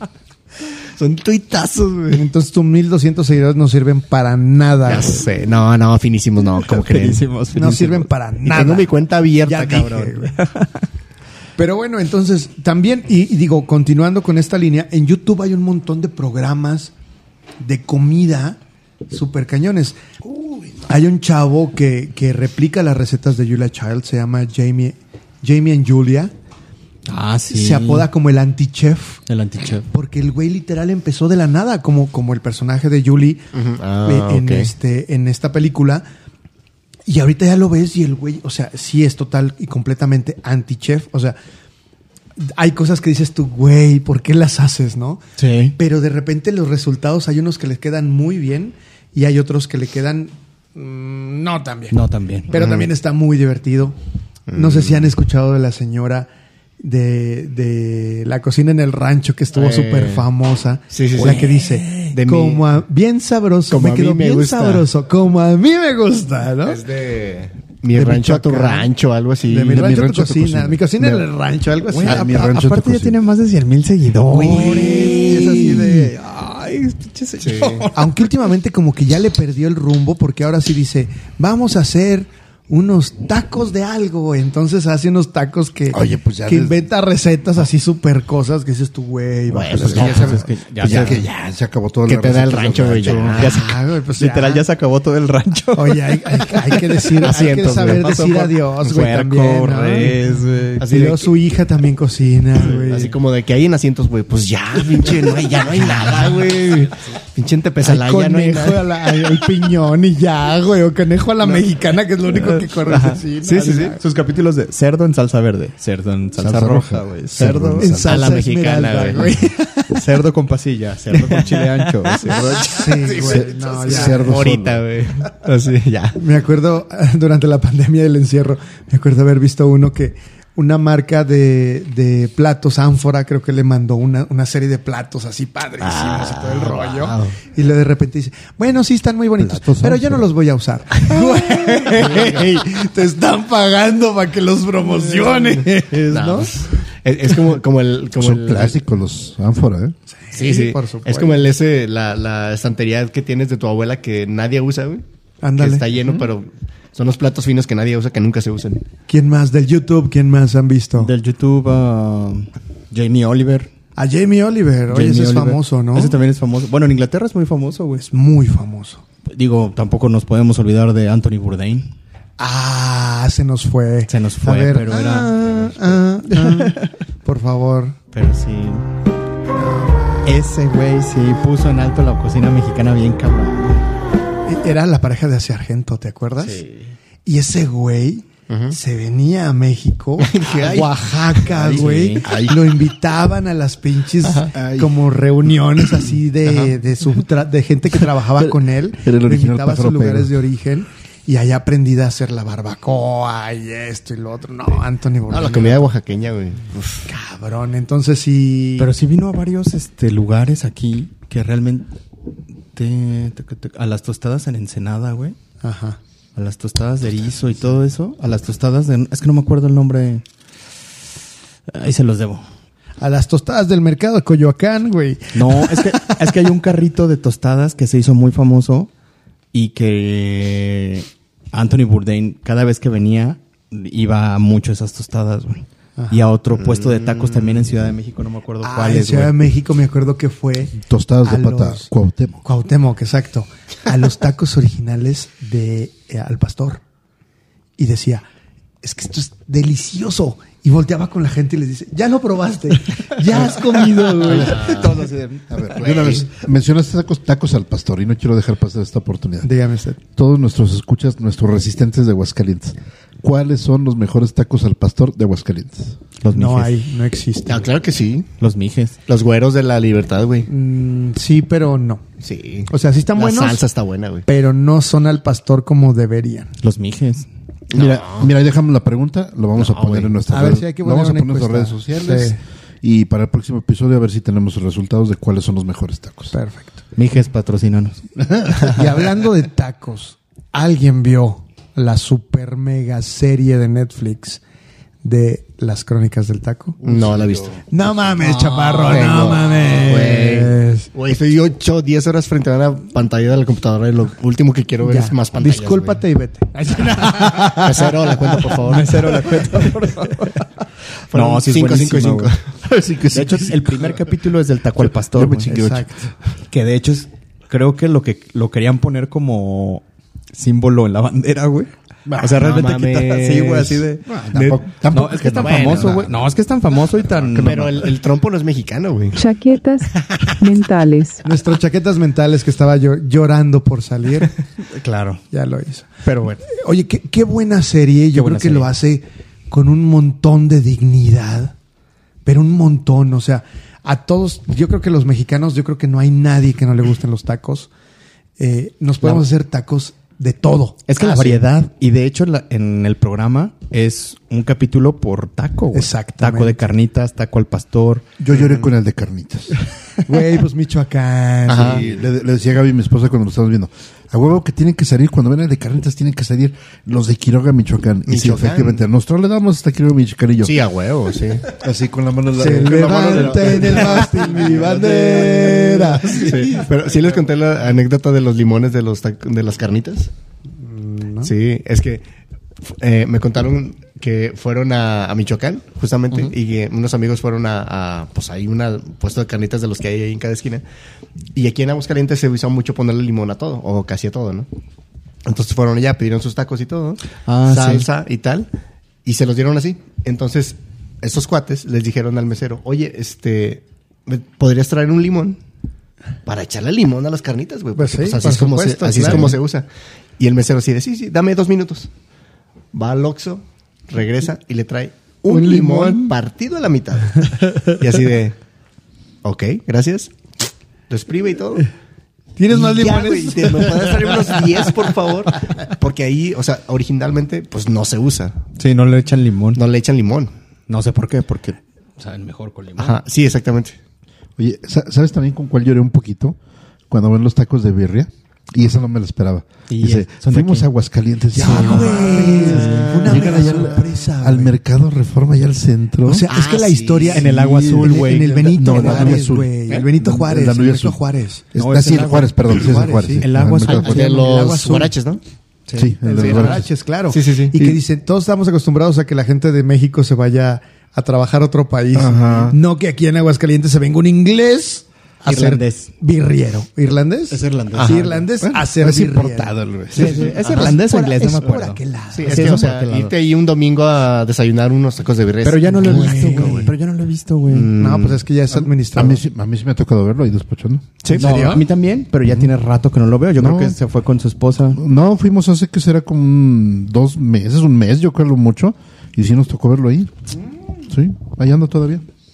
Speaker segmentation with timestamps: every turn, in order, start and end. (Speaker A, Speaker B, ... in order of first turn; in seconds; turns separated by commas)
Speaker A: 0.9-2.2, Speaker B: 2.1-5.2, Speaker A: 4.8-7.2, Speaker C: 6.6-8.1, Speaker B: 7.5-10.3, Speaker A: 8.4-10.2, Speaker C: 10.3-10.7, Speaker B: 11.6-16.9, Speaker B: 17.6-18.6, Speaker B: 19.1-20.0, Speaker B: 20.8-26.3, Speaker C: 27.1-28.1, Speaker B: 27.5-29.2, Speaker C: 29.3-29.9, Speaker B: 29.9-33.5, Speaker A: 33.5-34.7, Speaker B: 34.0-36.0, Speaker B: 37.1-41.4, Speaker B: 42.4-45.2, Speaker C: 45.4-45.8, Speaker B: 45.8-53.9, Speaker C: 51.9-52.5, Speaker A: 52.5-52.9, Speaker A: 54.5-55.1, Speaker B: 54.5-56.3, Speaker B: 56.8-66.8, Speaker A: 59.5-60.2, Speaker A: 60.9-62.6, Speaker A: 63.7-64.9, Speaker A: 66.6-69.9, Speaker B: 67.9-68.9, Speaker B: 69.4-72.5, Speaker D: 69.7-71.2, Speaker C: 71.9-78.1, Speaker D: 72.0-73.2, Speaker B: 74.3-76.1, Speaker A: 74.6-75.6, Speaker A: 77.4-77.8, Speaker B: 77.9-90.5, Speaker D: 85.9-86.9, Speaker A: 89.5-90.4, Speaker D: 89.8-93.5, Speaker C: 89.9-91.3, Speaker A: 92.1-93.6, Speaker C: 93.3-96.9, Speaker B: 93.5-94.6, Speaker B: 95.7-100.2, Speaker A: 97.1-98.5, Speaker C: 98.6-101.0, Speaker A: 100.8-101.2, Speaker B: 100.8-103.1, Speaker A: 102.6-109.4, Speaker B: 107.8-114.0, Speaker A: 112.9-114.0, Speaker C: 114.0-117.7, Speaker D: 116.4-118.3, Speaker A: 117.4-119.4, Speaker B: 117.8-119.9, Speaker C: 119.9-122.6, Speaker A: 121.1-126.2, Speaker D: 122.2-124.8, Speaker B: 122.6-124.5, Speaker B: 126.2-146.6, Speaker A: 135.8-137.3, Speaker D: 139.4-140.2, Speaker A: 141.9-142.5, Speaker A: 146.1-148.8, Speaker D: 148.2-149.9, Speaker B: 150.2-151.4, Speaker A: 150.3-155.0, Speaker B: 155.4-155.9, Speaker A: 155.6-158.8, Speaker B: 159.1-161.1, Speaker C: 161.0-163.7, Speaker B: 164.0-166.1, Speaker C: 164.9-168.0, Speaker B: 168.0-169.0, Speaker C: 169.3-171.9, Speaker B: 172.4-178.0, Speaker C: 174.1-176.9, Speaker C: 178.1-178.9, Speaker B: 179.5-180.3, Speaker C: 180.2-183.8, Speaker B: 184.4-186.6, Speaker C: 186.4-186.9, Speaker B: 187.2-205.9, Speaker A: 188.5-188.8, Speaker A: 190.2-190.9, Speaker C: 190.6-192.2, Speaker D: 192.2-192.7, Speaker D: 194.5-195.0, Speaker A: 196.4-196.7, Speaker D: 198.4-200.3, Speaker A: 205.3-207.1, Speaker B: 207.1-208.9, Speaker C: 208.8-211.9, Speaker C: 212.7-215.3, Speaker B: 215.6-216.0, Speaker C: 216.3-220.2, Speaker C: 221.7-222.4, Speaker B: 223.0-226.2, Speaker C: 225.3-228.9, Speaker C: 229.5-239.4, Speaker A: 236.5-237.6, Speaker B: 238.6-241.9, Speaker D: 240.8-242.4, Speaker B: 242.4-246.8, Speaker B: 247.8-248.2, Speaker B: 248.8-254.9, Speaker C: 253.3-255.8, Speaker D: 254.3-254.7, Speaker A: 254.4-255.0, Speaker D: 255.5-259.5, Speaker A: 255.8-256.2, Speaker B: 259.4-260.0, Speaker D: 260.1-265.9, Speaker C: 266.2-266.8, Speaker B: 266.3-267.7, Speaker A: 267.5-268.3, Speaker C: 268.4-269.0, Speaker A: 269.1-270.5, Speaker B: 270.5-272.0, Speaker A: 272.2-274.2, Speaker B: 272.7-273.6, Speaker B: 274.2-276.5, Speaker C: 276.6-277.3, Speaker A: 277.7-278.3, Speaker D: 277.7-286.3, Speaker A: 279.6-280.1, Speaker B: 280.3-282.4, Speaker B: 286.3-286.8, Speaker C: 286.9-288.1, Speaker B: 288.5-294.4, Speaker B: 295.0-296.8, Speaker A: 296.8-297.6, Speaker D: 296.8-297.6, Speaker B: 297.7-300.9, Speaker C: 298.3-299.0, Speaker A: 298.8-306.0, Speaker B: 304.8-307.7, Speaker C: 307.1-307.6, Speaker A: 307.3-309.2, Speaker C: 308.6-310.4, Speaker C: 311.1-312.3, Speaker A: 311.1-312.4, Speaker D: 312.6-314.0, Speaker C: 313.1-315.5, Speaker D: 314.8-315.9, Speaker B: 315.5-316.1, Speaker C: 316.5-324.1, Speaker D: 322.1-322.4, Speaker A: 322.2-324.6, Speaker D: 324.1-326.2, Speaker C: 324.9-327.9, Speaker A: 325.4-326.1, Speaker D: 327.2-327.7, Speaker A: 327.4-329.2, Speaker E: 329.1-331.2, Speaker B: 331.2-334.3, Speaker C: 334.7-335.2, Speaker B: 335.3-341.5, Speaker C: 336.1-336.4, Speaker C: 338.1-338.7, Speaker B: 342.2-347.7, Speaker B: 348.4-350.9, Speaker C: 350.9-358.1, Speaker A: 351.0-351.4, Speaker B: 355.7-356.6, Speaker D: 358.2-359.6, Speaker A: 358.3-358.6, Speaker B: 360.0-361.9, Speaker A: 361.4-361.9, Speaker D: 361.6-370.6, Speaker A: 368.1-368.8, Speaker A: 370.4-371.5, Speaker D: 371.5-376.1, Speaker B: 372.3-376.5, Speaker A: 372.9-375.5, Speaker A: 376.1-380.1, Speaker B: 380.6-381.3, Speaker A: 381.2-382.0, Speaker A: 382.6-390.6, Speaker A: 391.3-394.5, Speaker A: 395.2-398.5, Speaker C: 397.2-397.9, Speaker A: 399.0-405.4, Speaker A: 406.2-411.9, Speaker B: 407.7-409.4, Speaker A: 412.7-418.4, Speaker B: 415.2-416.1, Speaker A: 419.2-420.1, Speaker A: 420.9-421.7, Speaker B: 422.4-424.6, Speaker A: 422.5-428.4, Speaker C: 428.6-429.6, Speaker A: 429.5-430.3, Speaker C: 430.7-433.0, Speaker A: 432.8-433.8, Speaker D: 434.4-436.4, Speaker D: 436.9-446.3, Speaker C: 439.7-440.7, Speaker C: 441.3-443.6, Speaker B: 441.3-444.6, Speaker B: 446.0-451.4, Speaker A: 446.3-447.2, Speaker C: 447.1-449.2, Speaker D: 447.2-451.0, Speaker D: 451.5-454.1, Speaker C: 451.5-454.5, Speaker B: 452.5-454.9, Speaker A: 453.7-455.2, Speaker C: 455.7-455.9, Speaker D: 455.8-456.7, Speaker B: 456.0-472.7, Speaker A: 456.2-456.5, Speaker A: 457.1-457.5, Speaker D: 461.9-462.6, Speaker C: 465.2-465.9, Speaker C: 467.3-468.2, Speaker A: 467.7-468.0, Speaker D: 468.4-470.3, Speaker C: 469.9-473.1, Speaker A: 470.0-470.8, Speaker A: 472.1-476.7, Speaker C: 475.4-477.7, Speaker B: 475.8-476.7, Speaker A: 477.5-478.2, Speaker B: 477.8-479.2, Speaker D: 478.5-481.0, Speaker B: 481.1-481.6, Speaker C: 481.1-484.8, Speaker D: 483.4-483.8, Speaker D: 484.7-490.1, Speaker D: 490.9-492.1